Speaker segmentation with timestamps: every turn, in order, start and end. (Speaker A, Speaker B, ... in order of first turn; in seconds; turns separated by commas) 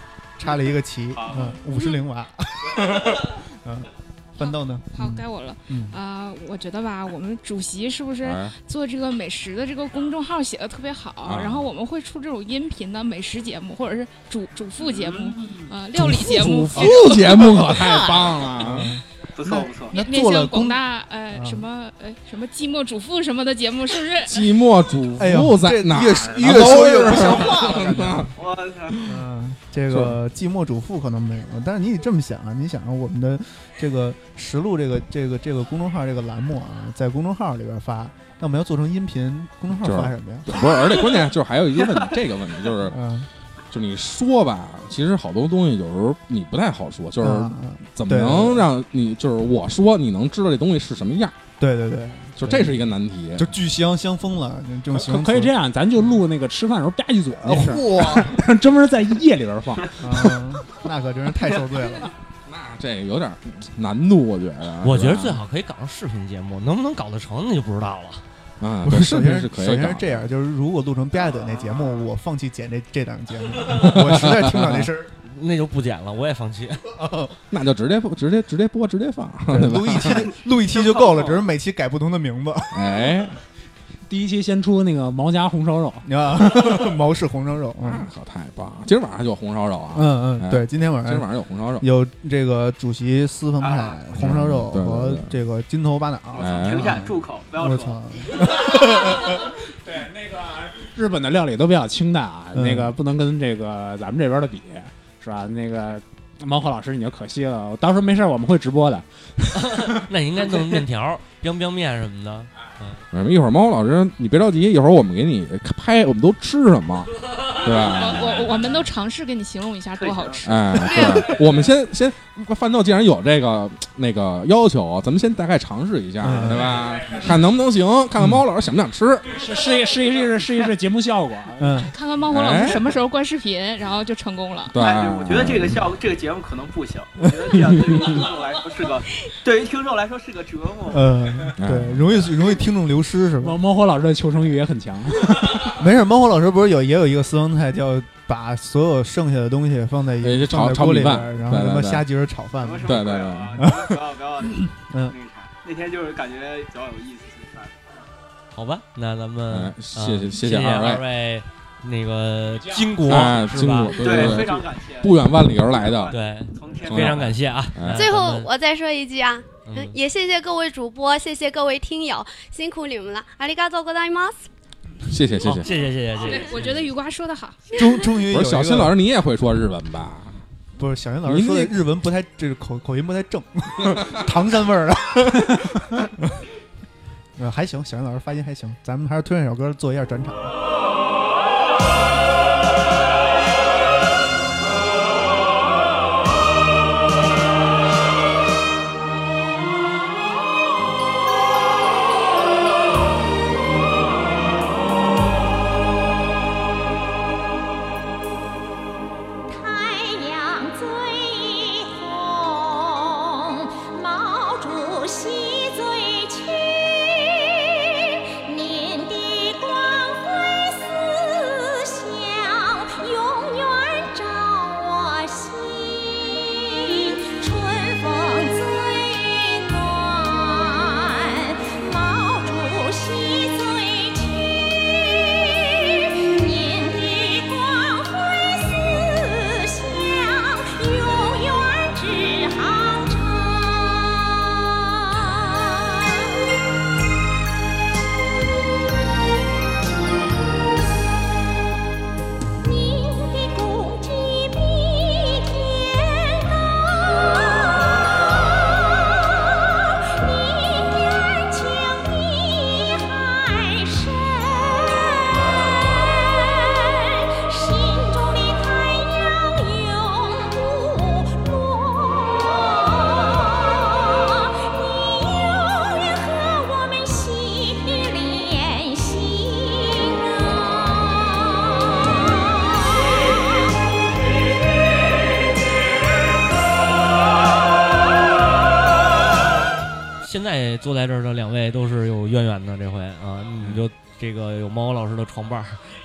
Speaker A: 0.4-6.0, Speaker B: 1.1-1.6, Speaker C: 4.4-17.3, Speaker D: 8.2-8.5, Speaker D: 11.2-11.7, Speaker B: 14.8-15.7, Speaker A: 16.1-16.7, Speaker D: 16.2-18.9, Speaker E: 16.7-18.9, Speaker A: 18.6-21.6, Speaker B: 19.4-20.0, Speaker C: 19.9-24.4, Speaker D: 24.2-28.3, Speaker A: 25.2-28.3, Speaker B: 28.3-29.1, Speaker A: 29.0-40.6, Speaker D: 29.9-30.1, Speaker D: 39.8-43.0, Speaker A: 42.9-43.3, Speaker D: 43.7-51.3, Speaker A: 47.2-48.6, Speaker A: 51.6-52.8, Speaker D: 52.4-53.5, Speaker A: 53.4-55.5, Speaker E: 54.9-60.3, Speaker A: 57.4-58.3, Speaker D: 57.6-58.2, Speaker A: 60.0-62.1, Speaker D: 62.5-65.4, Speaker F: 64.8-68.2, Speaker D: 68.6-70.2, Speaker A: 68.8-75.1, Speaker D: 73.7-74.9, Speaker F: 75.2-76.9, Speaker A: 77.0-77.3, Speaker D: 77.5-80.3, Speaker A: 79.5-82.9, Speaker B: 80.1-81.4, Speaker D: 82.7-83.4, Speaker E: 84.1-86.1, Speaker A: 86.0-88.0, Speaker D: 87.8-91.8, Speaker A: 89.9-91.3, Speaker A: 91.8-99.5, Speaker B: 93.6-94.0, Speaker D: 94.1-95.3, Speaker B: 96.3-98.0, Speaker D: 96.4-97.0, Speaker E: 99.8-110.1, Speaker A: 102.5-102.9, Speaker F: 109.6-113.0, Speaker D: 113.1-118.7, Speaker C: 117.9-120.5, Speaker B: 120.0-121.6, Speaker D: 120.4-129.2, Speaker G: 120.9-121.2, Speaker A: 126.2-126.7, Speaker E: 129.3-131.8, Speaker A: 131.6-131.9, Speaker C: 131.8-134.7, Speaker D: 132.3-132.9, Speaker D: 134.7-135.8, Speaker B: 134.8-141.1, Speaker A: 140.9-143.6, Speaker D: 141.6-142.2, Speaker E: 143.4-145.6, Speaker A: 145.7-153.1, Speaker D: 150.2-152.0, Speaker B: 152.6-157.8, Speaker D: 152.8-153.6, Speaker A: 153.6-153.9, Speaker A: 154.6-155.1, Speaker F: 158.5-164.5, Speaker D: 159.5-161.0, Speaker E: 162.5-162.9, Speaker D: 163.0-166.1, Speaker B: 163.9-167.3, Speaker F: 166.1-168.5, Speaker D: 166.9-168.1, Speaker G: 167.9-174.5, Speaker F: 169.7-169.9, Speaker D: 175.1-175.7, Speaker F: 175.4-176.8, Speaker C: 176.2-177.6, Speaker A: 177.7-178.9, Speaker D: 178.2-180.4, Speaker A: 180.8-186.3, Speaker D: 181.3-181.7, Speaker A: 187.4-190.5, Speaker H: 209.5-217.7, Speaker H: 218.4-246.3, Speaker H: 252.6-283.6, Speaker F: 290.2-295.8